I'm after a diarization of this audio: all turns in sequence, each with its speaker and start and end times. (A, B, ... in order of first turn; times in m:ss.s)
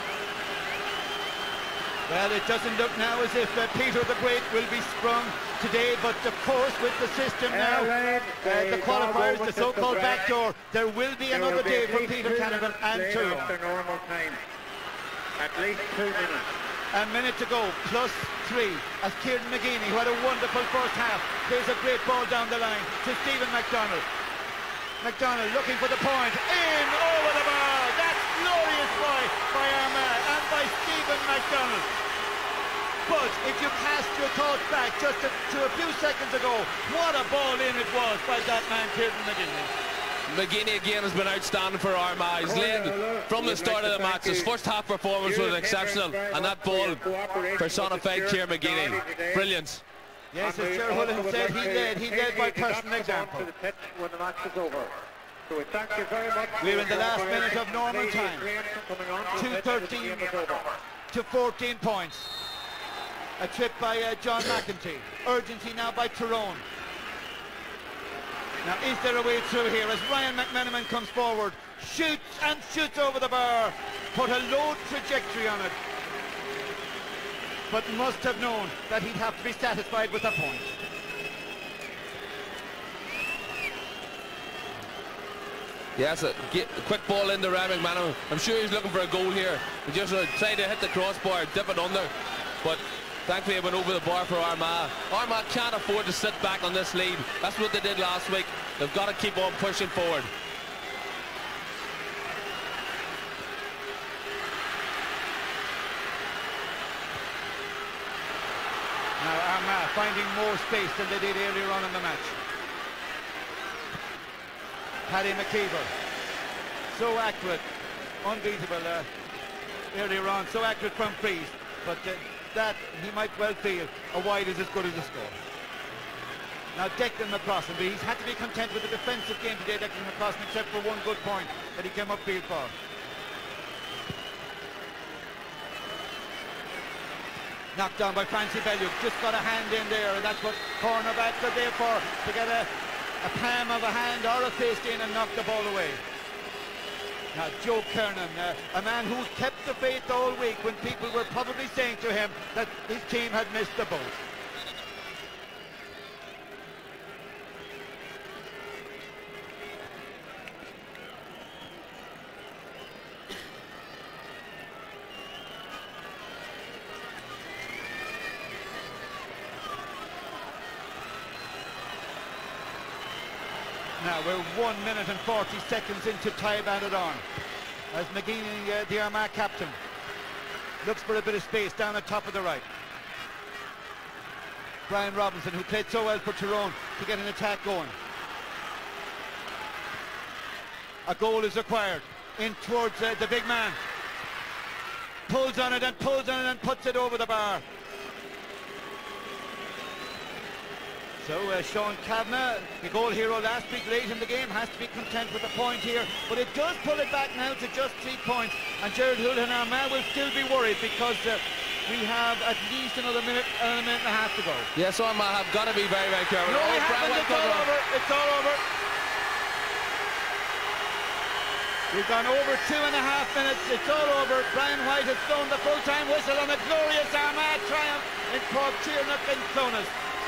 0:02.1-0:07.9 A
0:07.5-0:10.3 B
0:08.4-0:13.5 A
0:11.3-0:14.4 B
0:15.4-0:16.5 B
0:16.9-0:24.0 A
0:25.0-0:31.9 A
0:33.0-0:39.7 A
0:40.3-0:49.8 C
0:42.4-0:44.5 B
0:45.2-0:49.5 B
0:50.3-0:53.5 A
0:50.4-1:00.8 B
0:56.6-0:58.5 A
0:59.3-1:00.4 A
1:01.1-1:02.3 A
1:03.4-1:06.6 A
1:08.6-1:15.8 A
1:17.7-1:20.7 A
1:26.0-1:40.3 C
1:49.2-1:52.4 A
1:55.1-1:55.9 A
1:56.9-1:57.7 A
1:58.2-1:59.1 A
1:59.9-2:05.4 A
2:06.7-2:12.7 A
2:17.7-2:22.7 A
2:23.2-2:26.0 A
2:27.3-2:34.2 A
2:54.0-2:57.2 A
2:57.9-2:59.8 A
3:00.8-3:02.6 A
3:04.9-3:07.9 A
3:11.0-3:13.8 A
3:15.3-3:17.6 A
3:21.2-3:34.7 A
3:34.7-3:37.7 C
3:36.4-3:38.6 A
3:41.9-3:49.9 A